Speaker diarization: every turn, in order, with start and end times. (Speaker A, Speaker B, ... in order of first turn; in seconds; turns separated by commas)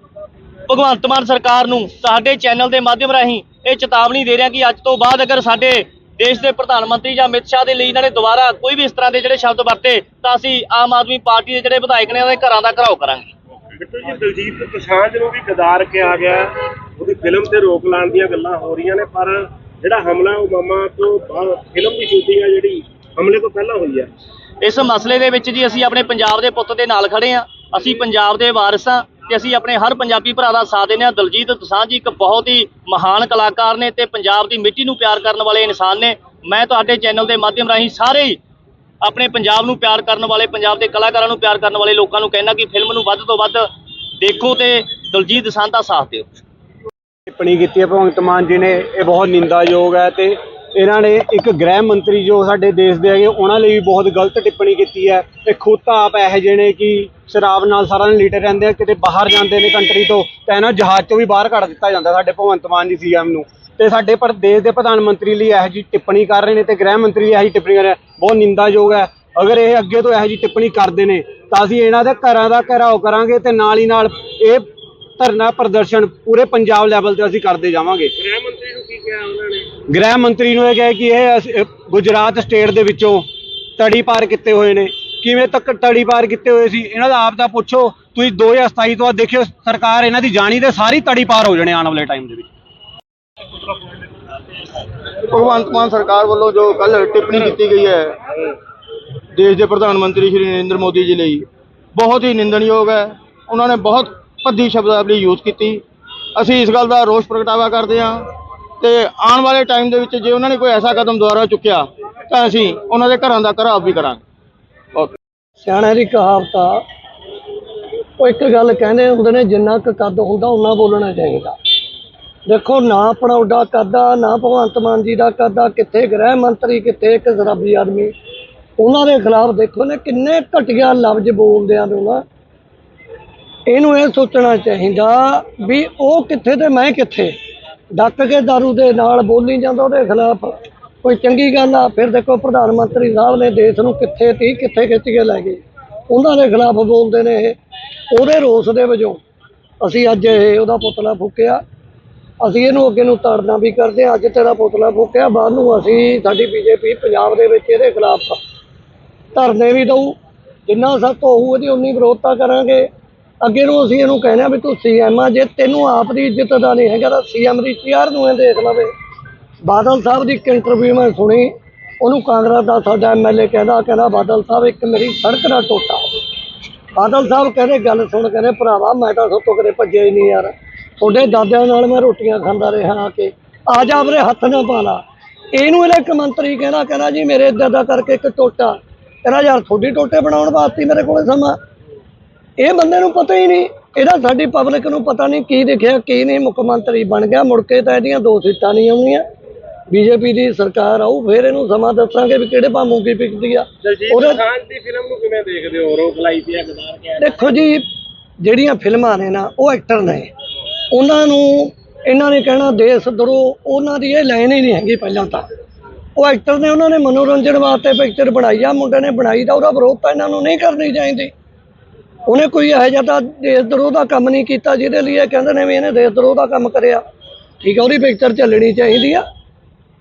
Speaker A: 0.7-13.3, Speaker B: 13.8-24.1, Speaker A: 24.6-38.4, Speaker A: 39.0-43.7, Speaker A: 44.2-46.4, Speaker C: 47.3-74.6, Speaker C: 75.2-78.1, Speaker B: 78.2-79.7, Speaker C: 79.9-83.3, Speaker C: 83.8-92.5, Speaker D: 95.3-98.2, Speaker D: 99.3-105.8, Speaker D: 106.4-114.2, Speaker E: 115.6-116.8, Speaker E: 118.2-121.5, Speaker E: 122.5-128.1, Speaker E: 128.8-132.2, Speaker E: 133.7-137.3, Speaker E: 138.0-147.6, Speaker E: 148.1-149.2, Speaker E: 149.8-151.6, Speaker E: 152.4-158.4, Speaker E: 159.3-160.2, Speaker E: 160.7-162.9, Speaker E: 163.4-168.9, Speaker E: 169.7-171.5, Speaker E: 172.0-176.1, Speaker E: 177.0-185.0, Speaker E: 185.6-191.6, Speaker E: 192.6-199.2, Speaker E: 199.9-204.4, Speaker B: 203.8-207.4, Speaker E: 207.2-207.8, Speaker E: 208.4-210.3, Speaker E: 210.9-215.4, Speaker E: 216.2-221.3, Speaker E: 222.3-227.0, Speaker E: 227.6-229.2